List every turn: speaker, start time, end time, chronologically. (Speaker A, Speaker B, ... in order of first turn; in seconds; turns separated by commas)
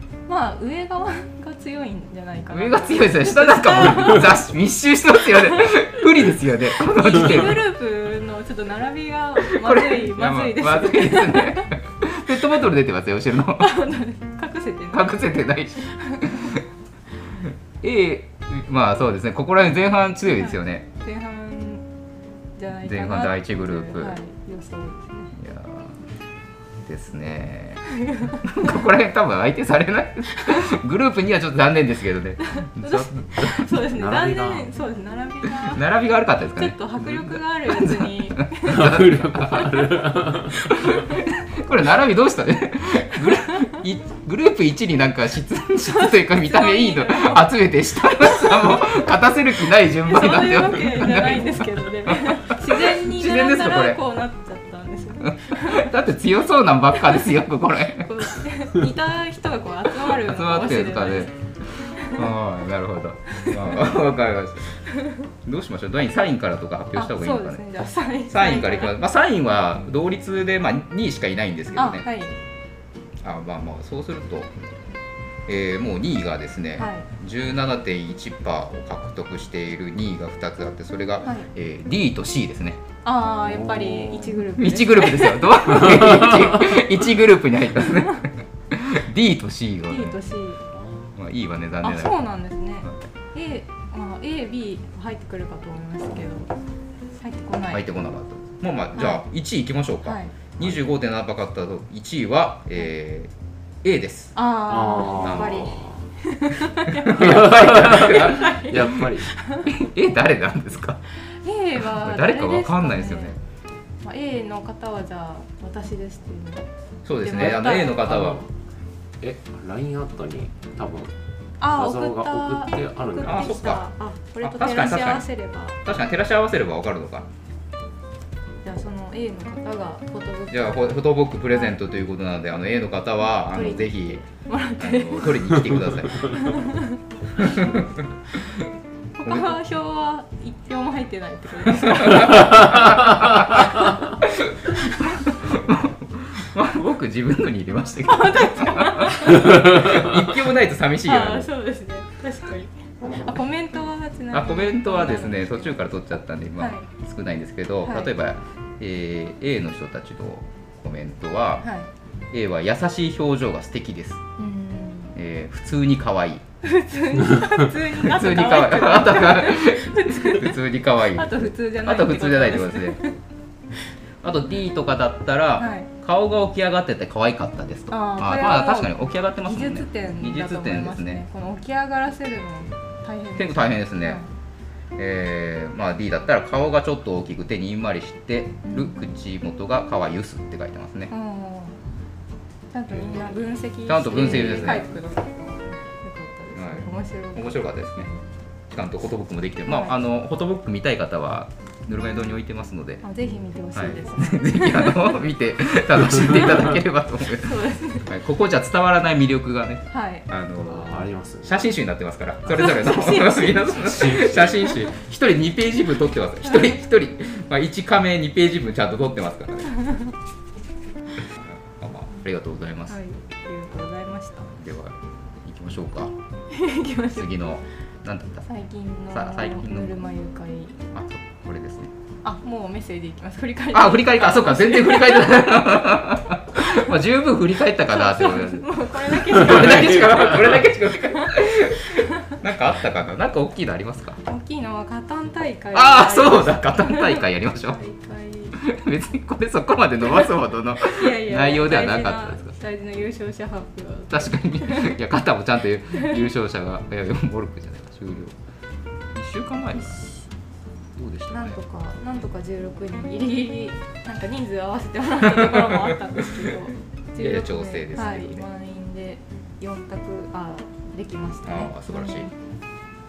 Speaker A: 0.3-4.5, Speaker B: 2.5-7.7, Speaker A: 5.5-5.8, Speaker A: 6.9-11.7, Speaker B: 9.4-13.8, Speaker A: 13.6-16.6, Speaker B: 14.9-16.6, Speaker B: 17.4-20.9, Speaker A: 20.3-21.9, Speaker A: 22.6-25.4, Speaker B: 22.8-24.2, Speaker B: 25.3-26.0, Speaker B: 26.8-27.8, Speaker A: 27.9-28.8, Speaker B: 28.4-33.7, Speaker A: 32.5-35.9, Speaker C: 33.9-34.7, Speaker B: 35.5-39.9, Speaker A: 36.5-39.9, Speaker C: 38.6-40.7, Speaker B: 40.6-54.0, Speaker A: 40.7-41.3, Speaker A: 43.3-43.7, Speaker A: 45.8-47.5, Speaker A: 48.1-48.9, Speaker A: 50.0-55.9, Speaker B: 55.3-58.4, Speaker A: 56.9-57.4, Speaker A: 58.0-62.3, Speaker B: 60.0-61.3, Speaker B: 62.0-64.8, Speaker A: 63.3-63.8, Speaker A: 64.9-65.2, Speaker B: 65.5-72.1, Speaker A: 67.0-69.0, Speaker A: 71.8-72.4, Speaker B: 73.2-74.5, Speaker B: 75.5-82.8, Speaker A: 76.8-77.1, Speaker A: 83.0-85.9, Speaker C: 83.4-84.5, Speaker B: 84.6-90.2, Speaker C: 85.9-86.5, Speaker A: 89.9-90.6, Speaker B: 91.2-92.2, Speaker A: 91.8-96.5, Speaker A: 97.1-97.8, Speaker B: 97.7-104.3, Speaker A: 99.0-99.2, Speaker A: 100.0-100.3, Speaker A: 104.3-109.7, Speaker C: 104.7-106.0, Speaker B: 105.2-105.8, Speaker B: 106.8-109.0, Speaker C: 107.1-109.3, Speaker B: 109.7-111.0, Speaker A: 111.3-113.3, Speaker B: 111.8-113.4, Speaker A: 114.0-116.7, Speaker B: 117.0-118.4, Speaker A: 117.2-118.1, Speaker C: 117.4-118.5, Speaker C: 119.2-121.1, Speaker A: 121.6-125.8, Speaker C: 121.7-123.7, Speaker B: 123.2-123.8, Speaker B: 124.4-125.3, Speaker B: 125.8-127.3, Speaker A: 128.6-130.9, Speaker B: 130.5-134.2, Speaker A: 131.5-131.8, Speaker A: 133.5-135.6, Speaker B: 134.8-136.5, Speaker A: 136.1-137.0, Speaker B: 137.4-138.6, Speaker A: 139.2-144.0, Speaker B: 139.2-139.6, Speaker B: 141.7-151.5, Speaker A: 148.1-150.1, Speaker A: 151.1-155.8, Speaker B: 154.3-161.7, Speaker A: 156.6-156.9, Speaker A: 157.8-158.1, Speaker A: 161.6-161.9, Speaker B: 162.3-164.2, Speaker A: 164.4-165.1, Speaker B: 165.1-166.4, Speaker A: 166.6-170.6, Speaker B: 167.9-173.0, Speaker A: 171.1-173.2, Speaker B: 174.2-181.2, Speaker A: 175.6-175.9, Speaker A: 177.9-184.3, Speaker B: 183.4-184.2, Speaker B: 185.0-191.1, Speaker A: 188.6-189.1, Speaker A: 191.1-191.8, Speaker A: 192.7-198.2, Speaker B: 193.9-194.9, Speaker B: 196.5-198.1, Speaker B: 198.7-203.0, Speaker A: 199.7-200.0, Speaker A: 203.0-205.2, Speaker B: 203.7-219.9, Speaker A: 207.3-208.1, Speaker A: 209.9-210.3, Speaker C: 210.6-211.7, Speaker A: 212.6-213.8, Speaker C: 213.7-214.8, Speaker A: 219.8-220.1, Speaker B: 221.2-223.0, Speaker A: 222.9-224.5, Speaker B: 224.5-226.1, Speaker A: 226.5-227.3, Speaker B: 227.1-228.5, Speaker A: 228.5-230.8, Speaker B: 229.1-230.0, Speaker B: 230.9-231.9, Speaker A: 232.2-235.7, Speaker B: 233.7-244.2, Speaker A: 237.9-242.3, Speaker A: 244.2-248.6, Speaker B: 245.7-247.8, Speaker B: 248.6-252.6, Speaker A: 250.8-255.0, Speaker B: 254.1-258.4, Speaker A: 255.9-256.2, Speaker B: 259.1-260.0, Speaker A: 259.8-260.3, Speaker B: 261.0-261.6, Speaker A: 261.3-272.3, Speaker B: 265.2-266.5, Speaker B: 267.2-268.5, Speaker B: 271.4-272.3